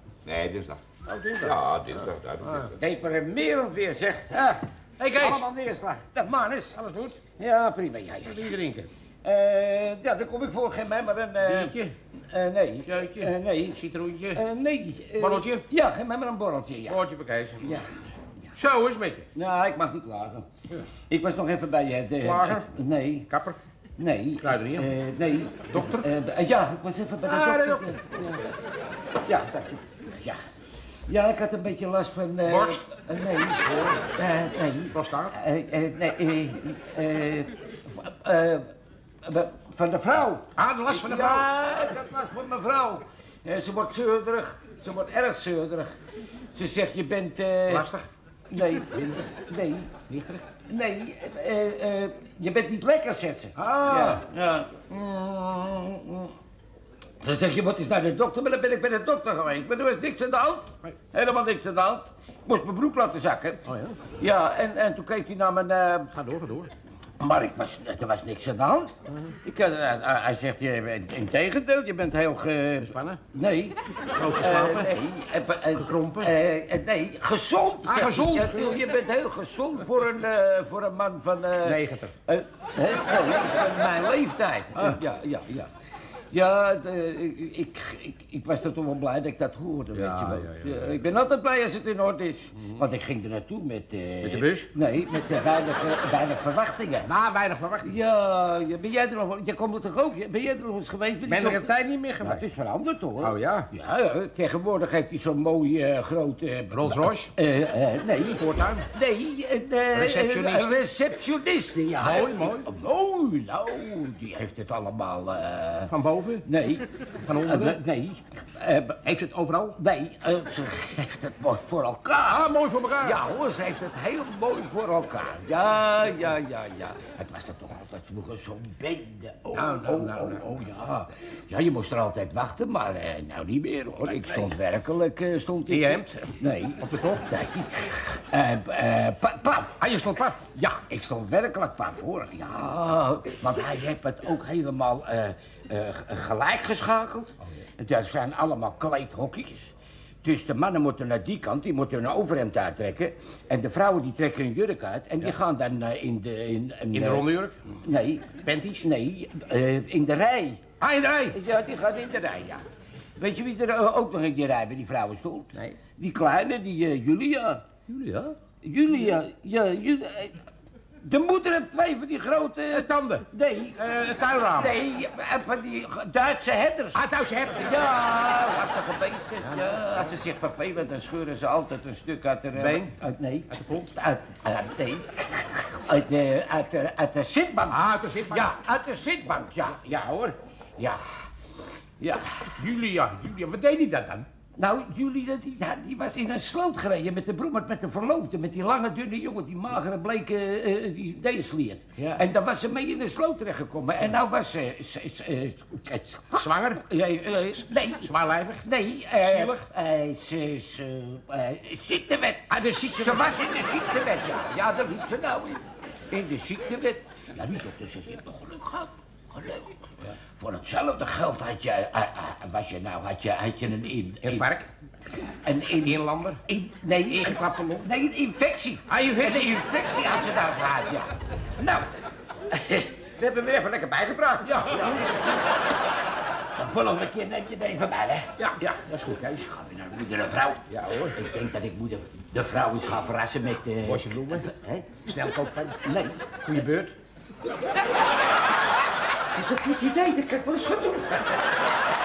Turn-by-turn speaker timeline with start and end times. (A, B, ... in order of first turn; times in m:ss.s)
0:00.2-0:00.9 A
0:01.0-0:02.8 B
0:01.4-0:02.7 A
0:02.7-0:06.8 C
0:05.0-0:05.5 B
0:06.7-0:07.2 B
0:07.4-0:08.6 C
0:08.2-0:08.9 B
0:09.2-0:17.0 C
0:11.4-0:12.0 B
0:12.8-0:14.4 B
0:15.2-0:15.6 B
0:16.9-0:17.8 B
0:17.6-0:18.0 C
0:18.6-0:19.3 B
0:19.3-0:20.5 C
0:21.1-0:23.3 C
0:22.2-0:22.8 B
0:23.3-0:23.6 B
0:24.0-0:28.6 C
0:24.4-0:25.0 B
0:25.7-0:26.1 B
0:27.3-0:28.2 B
0:29.2-0:30.4 C
0:31.1-0:38.7 C
0:32.5-0:32.9 B
0:34.9-0:35.4 B
0:39.2-0:46.0 C
0:40.6-0:41.5 B
0:46.5-0:47.9 C
0:47.7-0:48.1 B
0:48.5-0:50.0 C
0:50.1-0:50.4 B
0:50.6-0:56.3 C
0:53.6-0:54.2 B
0:57.2-1:06.1 C
1:03.7-1:04.1 B
1:06.1-1:06.7 B
1:07.2-1:25.7 C
1:09.1-1:09.4 B
1:12.8-1:13.2 B
1:14.1-1:15.0 B
1:15.8-1:16.3 B
1:17.8-1:18.8 B
1:21.6-1:22.1 B
1:26.3-1:37.1 C
1:29.9-1:30.9 B
1:34.2-1:34.7 B
1:37.1-1:38.0 B
1:37.8-1:55.9 C
1:41.3-1:42.5 B
1:43.2-1:43.7 B
1:46.7-1:47.3 B
1:48.4-1:48.9 B
1:49.9-1:50.8 B
1:52.0-1:52.7 B
1:55.9-1:56.5 B
1:56.4-1:59.0 C
1:57.0-1:57.8 B
1:59.0-1:59.8 B
1:59.8-2:02.5 C
2:02.3-2:03.2 B
2:03.0-2:19.9 C
2:09.5-2:10.5 B
2:14.1-2:14.6 B
2:15.7-2:17.3 B
2:19.8-2:20.5 B
2:20.4-2:37.3 C
2:36.9-2:37.8 B
2:37.8-2:40.7 C
2:38.4-2:38.9 B
2:40.8-2:41.4 B
2:41.3-2:42.6 C
2:43.2-2:47.7 C
2:47.9-2:48.4 B
2:48.6-2:50.5 C
2:51.0-2:53.8 C
2:52.7-2:53.3 B
2:53.8-2:54.8 B
2:54.5-3:11.0 C
2:56.9-2:57.9 B
3:02.6-3:03.0 B
3:03.5-3:03.9 B
3:07.7-3:08.6 B
3:12.0-3:12.5 C
3:12.6-3:14.3 B
3:14.6-3:44.5 C
3:22.0-3:22.2 B
3:26.3-3:26.9 B
3:27.7-3:29.7 B
3:32.5-3:33.4 B
3:44.2-3:44.7 B
3:45.2-3:51.9 C
3:45.8-3:46.4 B
3:47.1-3:47.9 B
3:48.9-3:49.8 B
3:52.5-3:55.3 C
3:54.4-3:55.1 B
3:56.6-3:58.3 C
3:58.4-3:59.5 B
3:59.2-4:05.0 C
4:00.7-4:01.2 B
4:03.8-4:04.5 B
4:05.1-4:05.9 B
4:05.8-4:06.4 C
4:06.4-4:07.0 B
4:09.3-4:11.3 C